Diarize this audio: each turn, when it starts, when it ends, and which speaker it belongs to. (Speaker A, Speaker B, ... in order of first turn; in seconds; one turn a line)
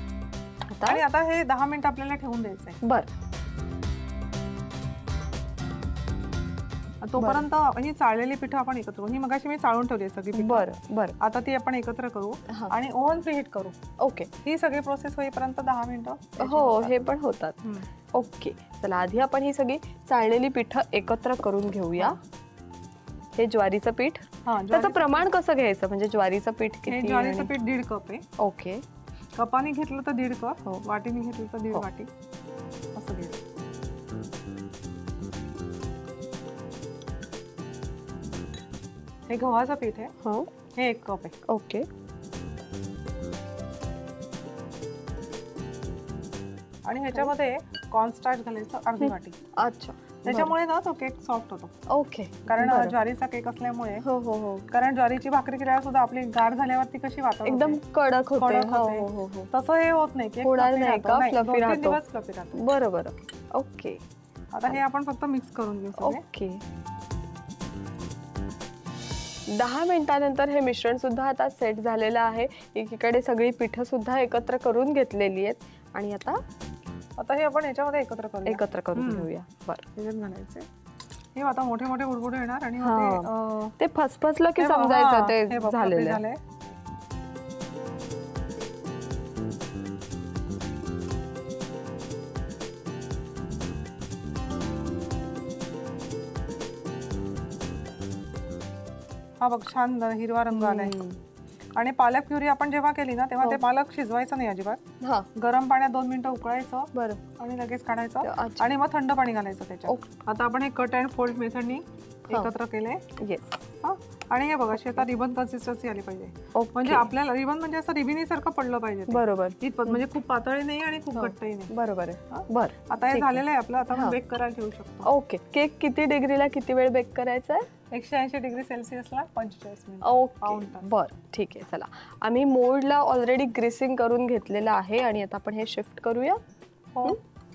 Speaker A: 0.7-1.0
Speaker B: 0.8-2.8
Speaker A: 2.8-3.1
Speaker B: 7.0-10.7
Speaker A: 7.2-7.4
Speaker A: 10.3-11.2
Speaker B: 11.2-13.8
Speaker A: 12.5-12.7
Speaker A: 14.0-14.3
Speaker B: 14.4-16.9
Speaker A: 16.4-17.6
Speaker A: 18.1-22.2
Speaker A: 23.4-27.5
Speaker B: 24.4-25.2
Speaker B: 26.9-28.2
Speaker A: 28.4-28.8
Speaker B: 29.4-32.1
Speaker B: 32.9-33.4
Speaker B: 39.3-40.1
Speaker A: 40.2-40.5
Speaker B: 40.7-41.3
Speaker A: 41.5-41.9
Speaker B: 46.9-49.4
Speaker A: 49.0-50.5
Speaker B: 50.2-51.7
Speaker A: 51.9-53.0
Speaker B: 52.5-54.0
Speaker A: 54.0-54.7
Speaker B: 54.7-57.8
Speaker A: 57.4-59.5
Speaker B: 58.4-62.6
Speaker A: 60.4-62.0
Speaker A: 62.5-64.0
Speaker B: 64.5-66.2
Speaker A: 66.0-66.6
Speaker A: 69.5-76.4
Speaker B: 77.2-79.3
Speaker A: 78.4-79.8
Speaker B: 80.0-80.7
Speaker B: 81.3-83.7
Speaker A: 82.8-86.2
Speaker B: 84.6-86.4
Speaker B: 99.4-101.0
Speaker A: 100.5-101.2
Speaker B: 101.7-104.8
Speaker A: 105.0-105.3
Speaker B: 105.3-113.0
Speaker A: 106.9-107.2
Speaker A: 108.2-108.7
Speaker A: 113.2-113.6
Speaker B: 113.8-121.7
Speaker A: 114.8-115.1
Speaker A: 116.5-117.1
Speaker A: 119.1-120.0
Speaker A: 121.1-123.4
Speaker B: 122.3-125.1
Speaker A: 125.0-127.7
Speaker B: 127.9-130.8
Speaker A: 130.0-136.4